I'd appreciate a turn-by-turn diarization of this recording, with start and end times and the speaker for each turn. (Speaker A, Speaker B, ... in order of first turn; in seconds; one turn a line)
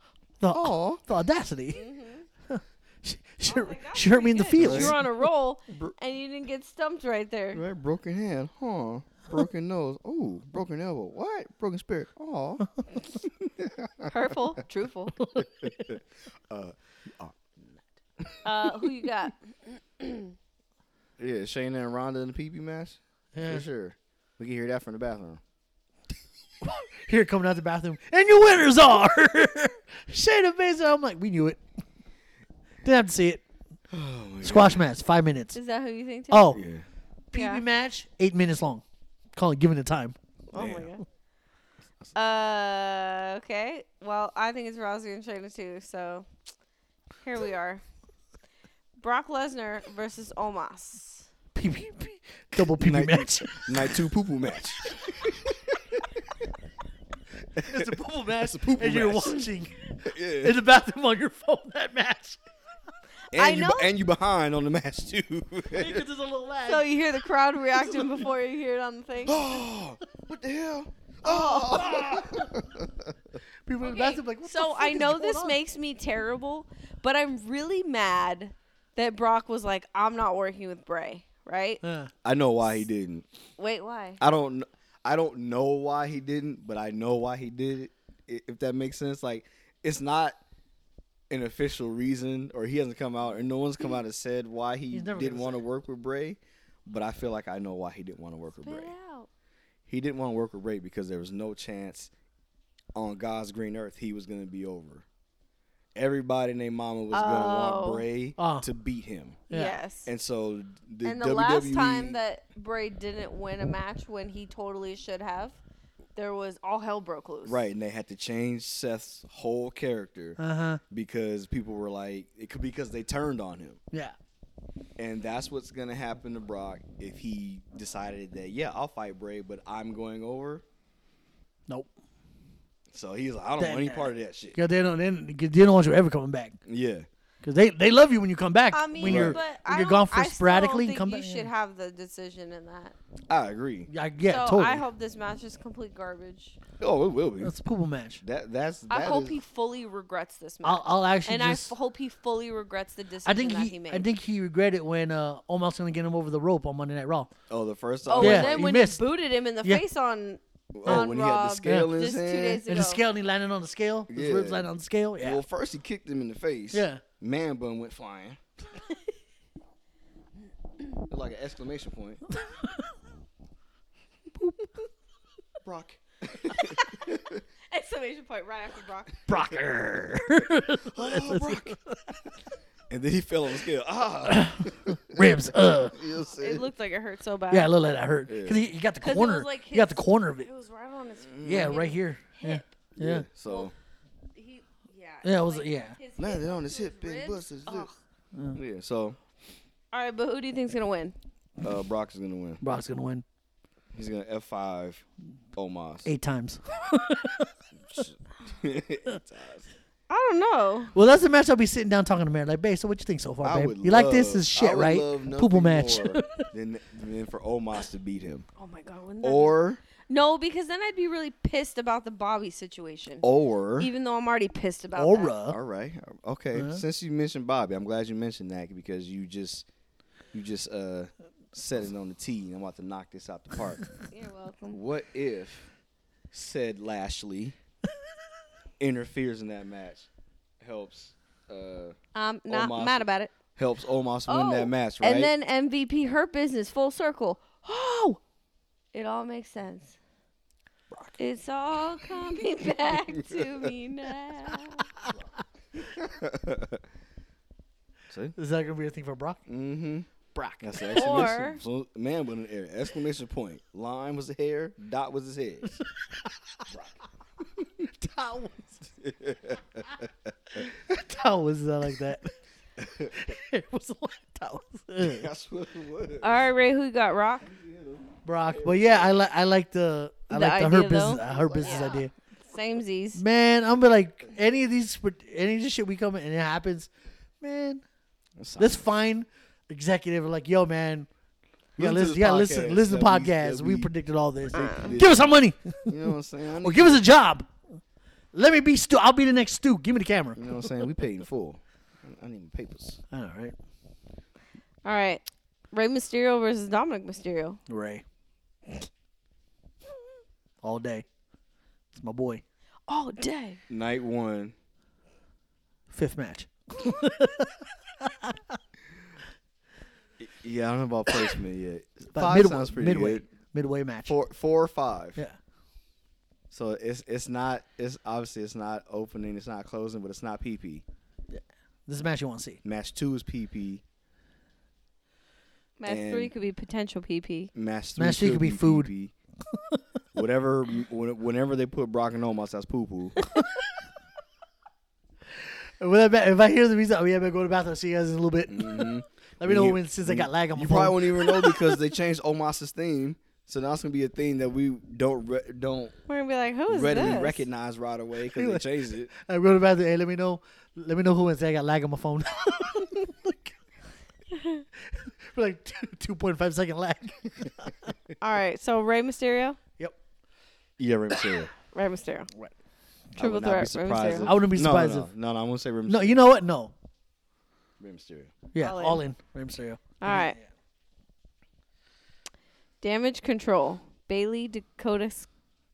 Speaker A: 0.4-1.8
Speaker B: 0.5-1.0
Speaker C: 1.7-2.3
Speaker A: 2.5-5.1
Speaker C: 3.5-7.6
Speaker B: 4.6-5.0
Speaker B: 5.7-5.9
Speaker B: 7.5-14.1
Speaker C: 14.1-15.2
Speaker A: 15.2-15.7
Speaker B: 15.4-18.4
Speaker C: 18.4-20.4
Speaker B: 21.2-25.4
Speaker A: 23.4-23.6
Speaker A: 26.6-31.6
Speaker A: 32.8-33.4
Speaker B: 33.9-34.9
Speaker A: 34.4-35.6
Speaker C: 35.5-36.6
Speaker A: 36.3-36.6
Speaker B: 36.5-36.9
Speaker A: 37.3-38.8
Speaker C: 37.3-37.6
Speaker A: 39.3-40.2
Speaker C: 40.5-41.0
Speaker B: 40.5-40.9
Speaker C: 42.1-46.3
Speaker C: 47.2-47.8
Speaker C: 49.0-51.3
Speaker A: 51.5-54.0
Speaker B: 52.6-56.2
Speaker B: 57.5-59.5
Speaker A: 57.6-62.4
Speaker B: 60.0-60.6
Speaker C: 63.3-63.9
Speaker B: 63.3-66.1
Speaker A: 65.7-66.9
Speaker C: 66.6-69.6
Speaker B: 69.2-73.4
Speaker C: 71.2-72.2
Speaker A: 72.0-72.5
Speaker A: 73.7-75.6
Speaker C: 73.8-81.8
Speaker A: 81.8-82.1
Speaker B: 82.2-83.3
Speaker C: 83.6-84.2
Speaker B: 84.2-90.4
Speaker B: 91.3-98.9
Speaker A: 94.9-95.6
Speaker C: 98.6-99.3
Speaker B: 99.9-102.1
Speaker B: 103.0-105.1
Speaker B: 106.0-109.4
Speaker C: 107.1-108.0
Speaker A: 108.4-108.7
Speaker A: 109.5-109.8
Speaker C: 109.5-110.1
Speaker B: 110.1-112.2
Speaker C: 111.0-115.6
Speaker C: 116.2-117.7
Speaker B: 117.5-120.4
Speaker A: 120.4-120.8
Speaker B: 120.9-123.8
Speaker B: 125.0-130.6
Speaker B: 132.9-134.6
Speaker A: 133.6-136.6
Speaker B: 136.7-137.1
Speaker A: 137.4-141.5
Speaker C: 138.7-143.0
Speaker B: 139.0-139.4
Speaker B: 143.3-143.9
Speaker A: 143.9-144.8
Speaker C: 144.2-146.6
Speaker B: 146.8-147.5
Speaker A: 147.4-148.2
Speaker B: 148.2-149.4
Speaker C: 148.9-154.1
Speaker A: 150.6-151.7
Speaker A: 153.3-157.3
Speaker B: 157.5-158.6
Speaker C: 158.1-163.0
Speaker A: 158.2-159.0
Speaker B: 160.7-162.6
Speaker A: 161.6-161.9
Speaker A: 162.7-165.4
Speaker B: 164.1-164.7
Speaker B: 165.2-168.4
Speaker A: 166.7-167.0
Speaker B: 171.1-172.2
Speaker A: 174.4-174.8
Speaker B: 175.6-177.4
Speaker C: 177.7-179.3
Speaker A: 179.3-182.0
Speaker B: 180.9-181.8
Speaker B: 182.9-186.7
Speaker A: 184.3-186.0
Speaker C: 186.4-187.7
Speaker A: 187.5-190.5
Speaker B: 188.3-188.7
Speaker C: 189.0-192.7
Speaker B: 191.2-191.8
Speaker A: 191.4-193.3
Speaker B: 193.0-193.7
Speaker C: 193.5-193.7
Speaker C: 194.3-197.9
Speaker A: 195.2-196.0
Speaker B: 196.2-197.9
Speaker A: 198.3-198.6
Speaker B: 198.5-199.2
Speaker C: 199.9-201.2
Speaker B: 201.6-202.6
Speaker A: 202.6-203.2
Speaker B: 203.9-206.1
Speaker A: 206.1-207.5
Speaker B: 207.8-209.7
Speaker C: 210.1-210.9
Speaker A: 210.9-216.4
Speaker B: 213.4-218.5
Speaker C: 218.6-219.6
Speaker B: 219.2-219.8
Speaker C: 220.1-223.3
Speaker B: 223.2-223.9
Speaker C: 223.8-225.3
Speaker A: 225.0-225.6
Speaker B: 225.5-229.7
Speaker A: 226.6-226.8
Speaker B: 230.3-233.8
Speaker C: 234.1-234.8
Speaker B: 234.7-235.7
Speaker B: 236.3-237.6
Speaker B: 238.8-240.1
Speaker B: 240.6-242.0
Speaker C: 242.1-243.3
Speaker B: 242.5-245.3
Speaker C: 244.3-248.2
Speaker C: 248.9-250.0
Speaker C: 251.2-254.9
Speaker B: 252.8-253.7
Speaker B: 255.8-256.8
Speaker B: 258.1-258.3
Speaker A: 258.4-259.4
Speaker B: 259.5-260.1
Speaker A: 260.3-261.2
Speaker B: 260.6-265.7
Speaker C: 260.9-261.6
Speaker A: 265.7-266.6
Speaker B: 266.7-267.9
Speaker A: 267.8-268.9
Speaker B: 269.0-270.6
Speaker A: 270.6-272.3
Speaker B: 272.8-273.3
Speaker A: 273.1-275.3
Speaker B: 275.0-276.4
Speaker C: 276.2-277.5
Speaker B: 277.5-279.1
Speaker A: 278.2-282.1
Speaker C: 280.3-283.2
Speaker B: 281.3-282.0
Speaker A: 283.1-286.9
Speaker A: 287.4-287.8
Speaker B: 288.4-288.9
Speaker A: 288.6-291.1
Speaker B: 291.8-293.9
Speaker A: 291.8-296.1
Speaker B: 294.5-297.0
Speaker C: 294.5-295.0
Speaker A: 296.6-297.5
Speaker A: 298.3-300.6
Speaker B: 300.4-303.0
Speaker A: 303.1-303.6
Speaker C: 304.9-307.6
Speaker A: 307.7-308.0
Speaker A: 310.6-311.1
Speaker A: 311.9-312.4
Speaker C: 312.9-313.6
Speaker B: 313.7-314.6
Speaker A: 315.9-318.6
Speaker B: 320.2-323.3
Speaker A: 322.1-324.2
Speaker B: 324.1-325.2
Speaker B: 326.5-330.8
Speaker A: 331.3-332.6
Speaker B: 332.6-333.8
Speaker C: 335.8-337.5
Speaker B: 335.9-336.3
Speaker B: 337.5-339.1
Speaker A: 338.0-338.9
Speaker A: 339.5-339.8
Speaker B: 340.1-343.2
Speaker A: 345.4-351.6
Speaker B: 348.5-356.0
Speaker C: 356.1-357.4
Speaker B: 356.7-359.1
Speaker A: 356.9-357.2
Speaker A: 358.3-363.5
Speaker C: 364.3-364.6
Speaker A: 364.9-367.9
Speaker C: 368.2-369.6
Speaker B: 370.8-371.5
Speaker C: 371.7-372.3
Speaker B: 373.2-376.2
Speaker C: 373.2-374.3
Speaker A: 374.2-375.1
Speaker A: 375.9-376.7
Speaker B: 377.8-378.3
Speaker A: 378.5-380.4
Speaker C: 378.6-379.0
Speaker C: 380.0-380.4
Speaker C: 382.8-385.3